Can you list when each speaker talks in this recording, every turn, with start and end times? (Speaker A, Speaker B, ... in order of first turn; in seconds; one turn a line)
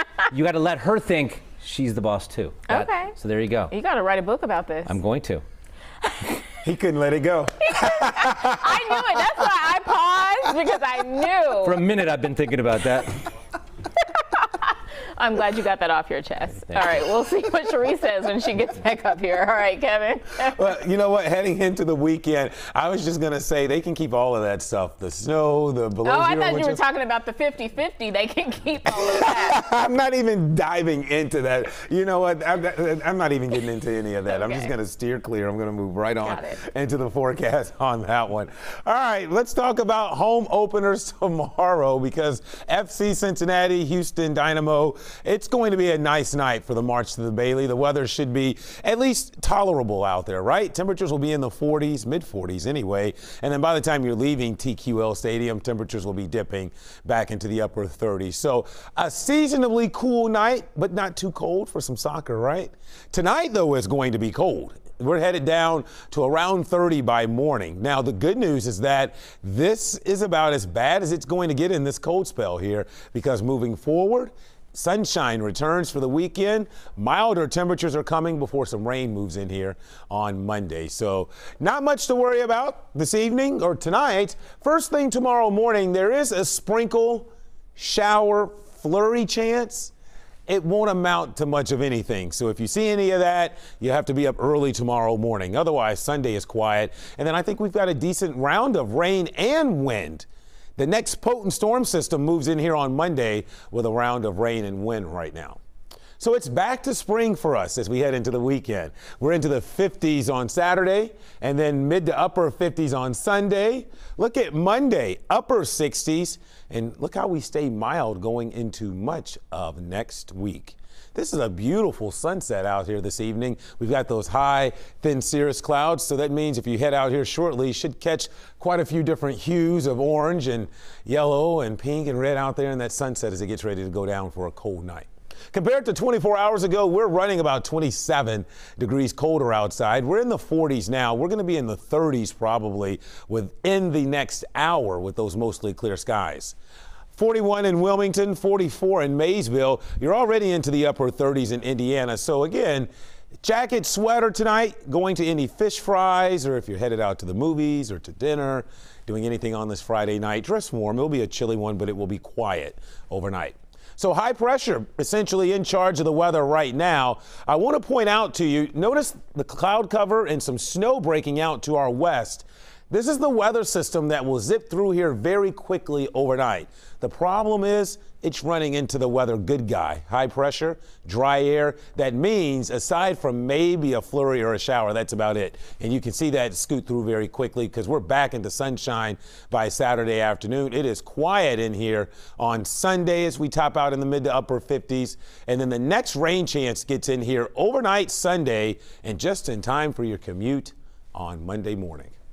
Speaker A: 0.3-3.7
Speaker B: 2.7-3.2
Speaker B: 3.7-5.0
Speaker A: 4.9-5.4
Speaker C: 6.6-9.1
Speaker B: 7.8-11.8
Speaker A: 11.6-13.2
Speaker B: 14.3-20.7
Speaker C: 20.4-26.8
Speaker B: 26.1-29.6
Speaker C: 28.9-89.9
Speaker B: 34.3-34.7
Speaker B: 36.2-36.6
Speaker C: 90.5-105.6
Speaker C: 106.2-146.6
Speaker C: 147.2-152.9
Speaker C: 153.4-202.2